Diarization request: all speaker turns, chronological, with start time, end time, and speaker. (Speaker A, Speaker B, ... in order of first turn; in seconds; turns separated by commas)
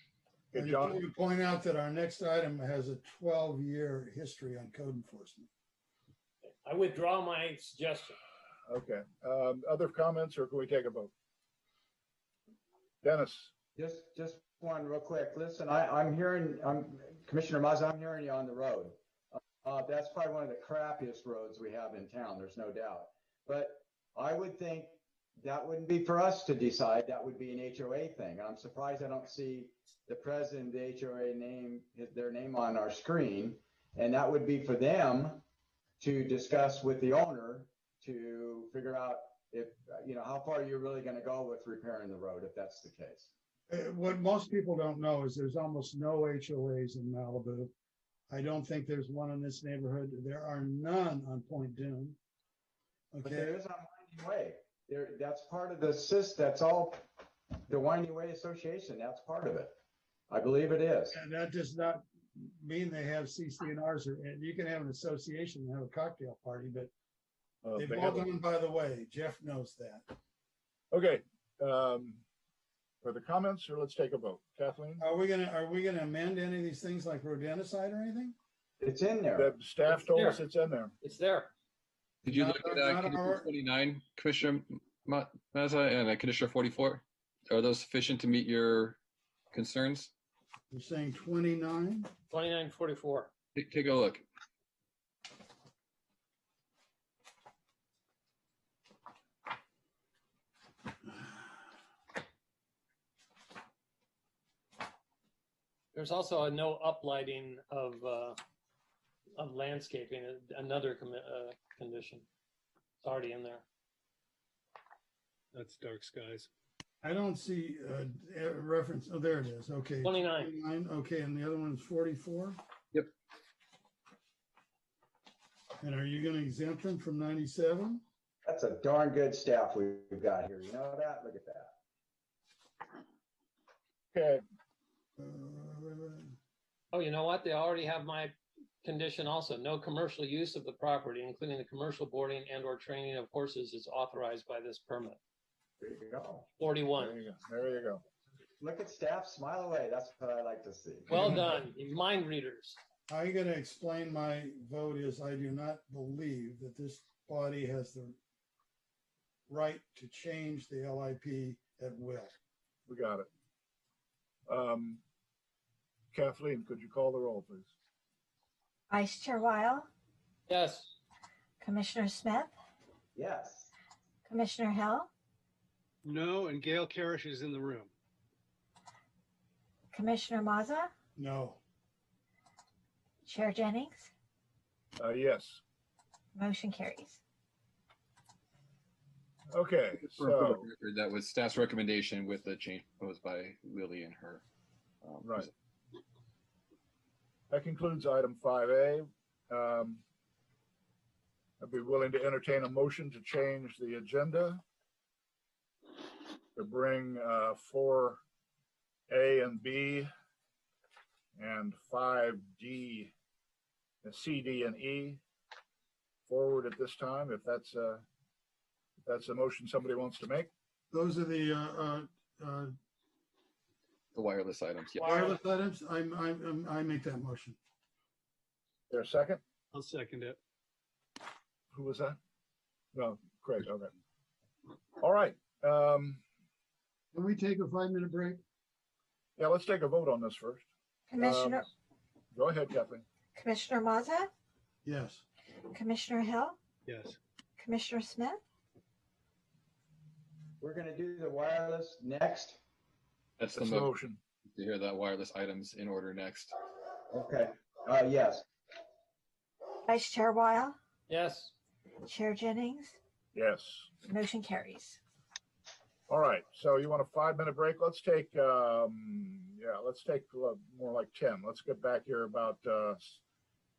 Speaker A: 0.5-1.0, Speaker B: 0.6-5.5, Speaker C: 6.6-8.2, Speaker A: 8.7-11.1, Speaker A: 13.0-13.5, Speaker D: 13.8-35.4, Speaker D: 36.0-43.3, Speaker B: 43.7-47.7, Speaker B: 48.3-52.2, Speaker B: 53.1-53.5, Speaker D: 53.2-57.0, Speaker D: 57.7-59.8, Speaker D: 60.3-61.2, Speaker B: 61.1-66.9, Speaker A: 67.6-68.3, Speaker B: 67.8-70.0, Speaker A: 70.9-72.2, Speaker A: 73.0-75.0, Speaker B: 75.0-78.3, Speaker D: 78.8-79.5, Speaker A: 79.4-80.9, Speaker C: 79.9-80.4, Speaker C: 81.0-81.5, Speaker B: 82.2-83.5, Speaker E: 82.2-89.0, Speaker E: 89.5-90.1, Speaker B: 90.7-92.1, Speaker C: 92.3-93.3, Speaker E: 93.5-94.2, Speaker C: 105.9-108.4, Speaker C: 109.4-112.2, Speaker C: 113.0-113.7, Speaker F: 115.5-116.5, Speaker B: 117.0-122.6, Speaker C: 120.0-120.5, Speaker B: 125.8-128.0, Speaker D: 128.4-131.7, Speaker A: 134.1-134.4, Speaker B: 135.2-136.3, Speaker C: 136.9-145.2, Speaker D: 145.8-146.5, Speaker C: 146.6-147.2, Speaker A: 146.9-148.0, Speaker D: 148.6-151.3, Speaker C: 151.1-152.8, Speaker B: 153.1-158.2, Speaker B: 159.5-162.3, Speaker A: 162.9-163.3, Speaker A: 164.5-165.0, Speaker A: 166.1-167.7, Speaker G: 168.9-169.9, Speaker C: 170.5-170.9, Speaker G: 171.6-172.5, Speaker D: 173.2-173.7, Speaker G: 174.3-175.1, Speaker F: 176.0-177.9, Speaker G: 179.9-180.9, Speaker B: 181.2-181.6, Speaker G: 183.2-184.1, Speaker A: 185.0-185.6, Speaker G: 186.3-187.2, Speaker A: 189.5-190.7, Speaker E: 190.1-194.4, Speaker E: 195.0-195.5, Speaker A: 195.2-195.5, Speaker A: 197.5-200.0, Speaker A: 201.6-204.6, Speaker A: 206.6-208.2, Speaker A: 209.1-210.1, Speaker A: 211.3-213.1, Speaker A: 214.0-215.2, Speaker A: 216.3-218.0, Speaker A: 219.0-220.5, Speaker B: 220.9-222.7, Speaker E: 224.1-225.4, Speaker B: 225.0-227.6, Speaker A: 228.9-229.4, Speaker F: 229.7-230.4, Speaker A: 231.7-232.2, Speaker A: 232.9-233.9, Speaker A: 235.0-236.2, Speaker B: 237.1-238.4, Speaker A: 239.4-240.7, Speaker G: 241.1-241.7, Speaker A: 241.2-241.6, Speaker A: 242.3-243.1, Speaker G: 243.3-244.3, Speaker B: 244.8-245.2, Speaker G: 245.7-246.6, Speaker F: 246.9-247.2, Speaker G: 247.6-248.4, Speaker D: 250.6-252.6, Speaker E: 253.4-253.9, Speaker A: 253.6-254.2, Speaker E: 254.4-256.5, Speaker D: 257.1-258.4, Speaker G: 259.9-260.8, Speaker C: 261.1-261.5, Speaker G: 262.0-263.0, Speaker A: 263.3-263.9, Speaker G: 264.1-265.0, Speaker A: 266.1-273.2